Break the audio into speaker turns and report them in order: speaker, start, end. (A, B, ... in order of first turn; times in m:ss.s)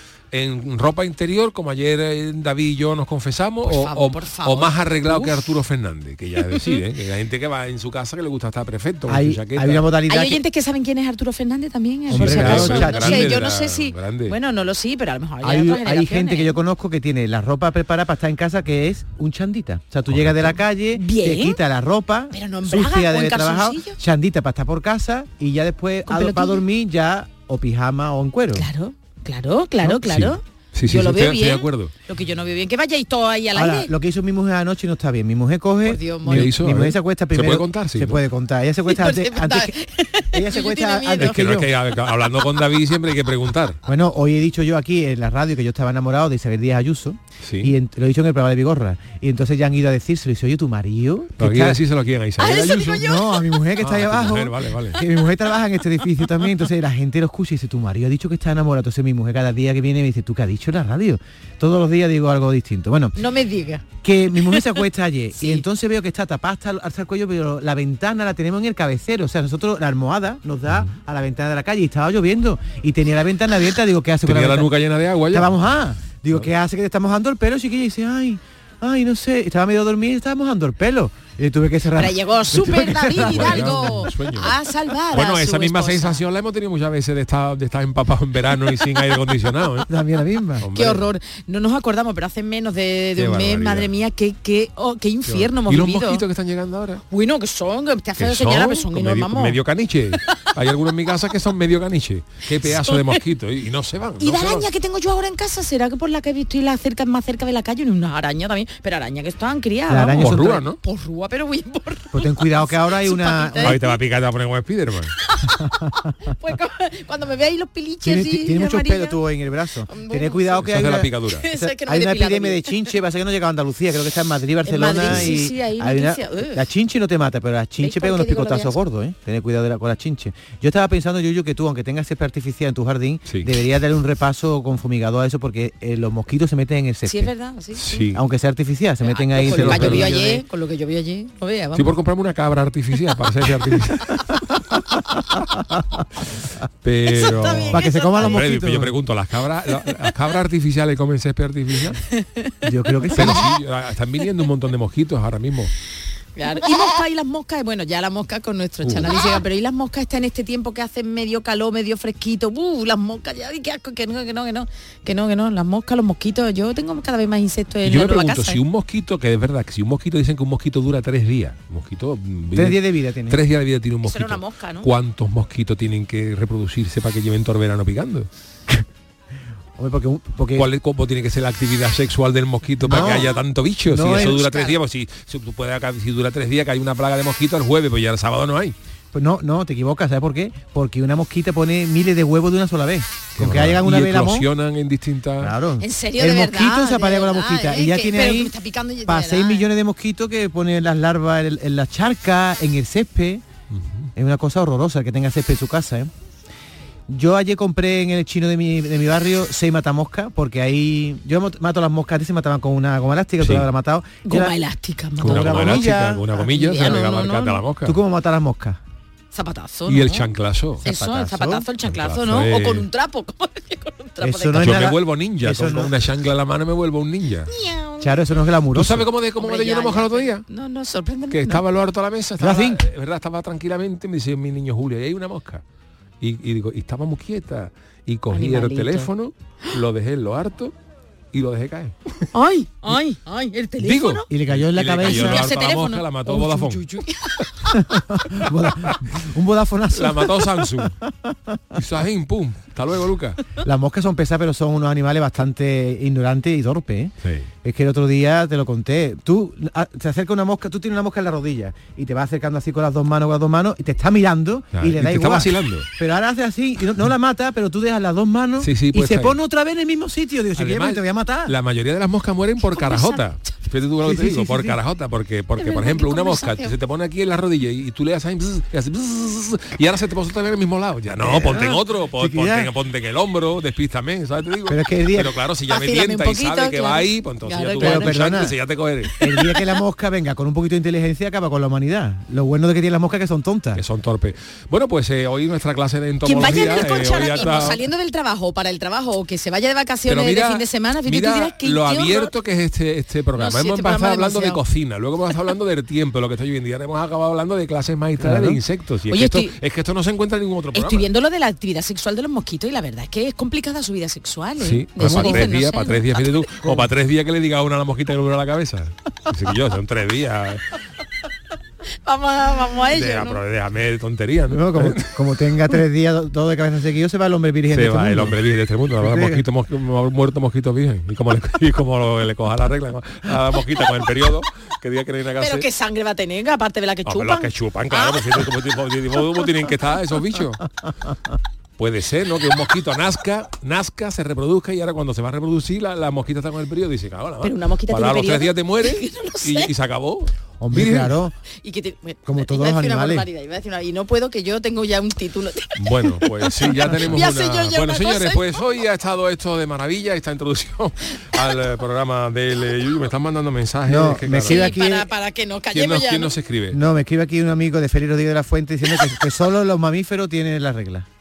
0:00.3-0:09.8 A
0:03.6-0:05.4 B
0:09.1-0:10.4 C
0:10.1-0:16.6 B
0:12.1-0:13.4 C
0:12.1-0:14.4 A
0:15.4-0:28.6 C
0:20.1-0:20.5 A
0:20.9-0:21.6 B
0:22.3-0:24.0 B
0:26.1-0:26.6 B
0:28.5-0:33.9 B
0:29.8-0:31.9 A
0:33.5-0:39.7 C
0:35.8-0:36.5 B
0:36.3-0:38.2 A
0:38.9-0:41.4 B
0:40.3-0:41.7 C
0:41.2-0:43.8 A
0:43.8-0:51.8 C
0:47.4-0:47.7 A
0:51.4-0:53.0 A
0:52.4-0:53.6 B
0:53.0-1:03.2 C
0:53.8-0:55.0 A
1:03.2-1:04.6 B
1:04.0-1:14.7 C
1:05.4-1:05.6 B
1:14.2-1:15.6 A
1:15.3-1:24.0 C
1:22.0-1:26.2 B
1:22.8-1:24.5 A
1:25.1-1:29.9 A
1:29.9-1:30.7 C
1:30.6-1:31.1 A
1:30.7-1:36.2 B
1:33.2-1:33.9 A
1:35.3-1:37.0 A
1:37.1-1:39.6 B
1:38.2-1:44.7 A
1:42.7-1:43.2 B
1:44.2-1:54.0 B
1:49.9-1:50.6 C
1:50.2-1:50.8 A
1:52.1-1:53.8 C
1:53.6-1:55.1 A
1:55.2-1:59.2 B
1:58.0-2:17.3 C
1:59.9-2:00.6 B
2:00.6-2:01.4 A
2:01.3-2:02.9 B
2:04.6-2:06.6 B
2:07.8-2:08.8 B
2:13.3-2:13.5 A
2:17.0-2:18.1 B
2:17.8-2:18.2 A
2:18.1-2:20.4 C
2:19.0-2:21.9 B
2:19.4-2:20.4 A
2:21.7-2:24.4 A
2:26.8-2:32.0 A
2:27.1-2:28.4 B
2:27.7-2:28.9 C
2:32.2-2:32.5 B
2:32.6-2:33.4 C
2:33.1-2:35.7 A
2:36.4-2:48.6 B
2:38.9-2:39.1 A
2:47.8-2:58.3 A
2:52.5-2:53.4 C
2:54.0-2:54.9 B
2:59.8-3:00.7 C
3:00.5-3:08.7 A
3:02.8-3:03.3 C
3:03.9-3:04.4 C
3:04.0-3:04.8 B
3:09.1-3:14.5 C
3:13.4-3:15.5 A
3:15.4-3:18.5 C
3:15.8-3:19.7 B
3:19.0-3:23.4 C
3:23.7-3:24.1 A
3:24.2-3:26.1 C
3:27.1-3:34.5 C
3:33.4-3:33.7 A
3:34.2-3:35.8 B
3:35.2-3:36.4 C
3:35.2-3:38.0 A
3:36.4-3:37.6 B
3:37.8-3:38.8 C
3:39.3-3:40.2 B
3:39.9-3:40.8 A
3:40.8-3:41.6 C
3:40.8-3:44.8 B
3:41.8-3:42.9 A
3:44.2-3:45.9 C
3:44.5-3:47.5 A
3:47.5-3:48.2 B
3:48.0-3:49.1 C
3:48.7-3:50.4 A
3:49.4-3:51.6 B
3:51.3-3:55.6 A
3:52.4-3:52.8 C
3:56.2-4:00.7 A
3:58.3-3:59.1 B
4:01.3-4:02.2 A
4:02.3-4:04.2 B
4:03.8-4:07.4 A
4:04.3-4:05.5 C
4:05.0-4:07.8 B
4:07.9-4:11.8 C
4:09.9-4:11.0 A
4:11.7-4:13.4 A
4:13.6-4:17.1 C
4:17.6-4:31.5 C
4:24.7-4:25.9 A
4:28.6-4:29.4 A
4:30.6-4:49.1 A
4:32.7-4:33.5 B
4:34.0-4:34.8 C
4:35.6-4:36.7 B
4:41.2-4:42.7 C
4:44.7-4:45.4 C
4:45.7-4:48.2 B
4:47.8-4:48.6 C
4:49.2-4:53.8 C
4:53.8-4:57.8 A
4:56.2-5:02.3 B
5:00.1-5:11.1 A
5:03.4-5:04.6 B
5:08.2-5:08.6 C
5:09.1-5:09.5 B
5:10.7-5:16.1 B
5:14.6-5:20.6 A
5:15.0-5:15.4 C
5:22.0-5:23.4 B
5:22.9-5:25.2 A
5:24.5-5:28.4 C
5:27.7-5:35.6 A
5:29.0-5:29.4 C
5:35.4-5:38.4 B
5:37.0-5:40.6 A
5:41.8-5:51.1 A
5:47.4-5:49.7 B
5:50.6-5:51.3 C
5:51.6-5:58.4 B
5:52.2-5:53.3 C
5:55.8-6:04.7 A
6:03.8-6:05.0 C
6:04.4-6:06.3 B
6:05.7-6:06.8 A
6:06.7-6:11.0 C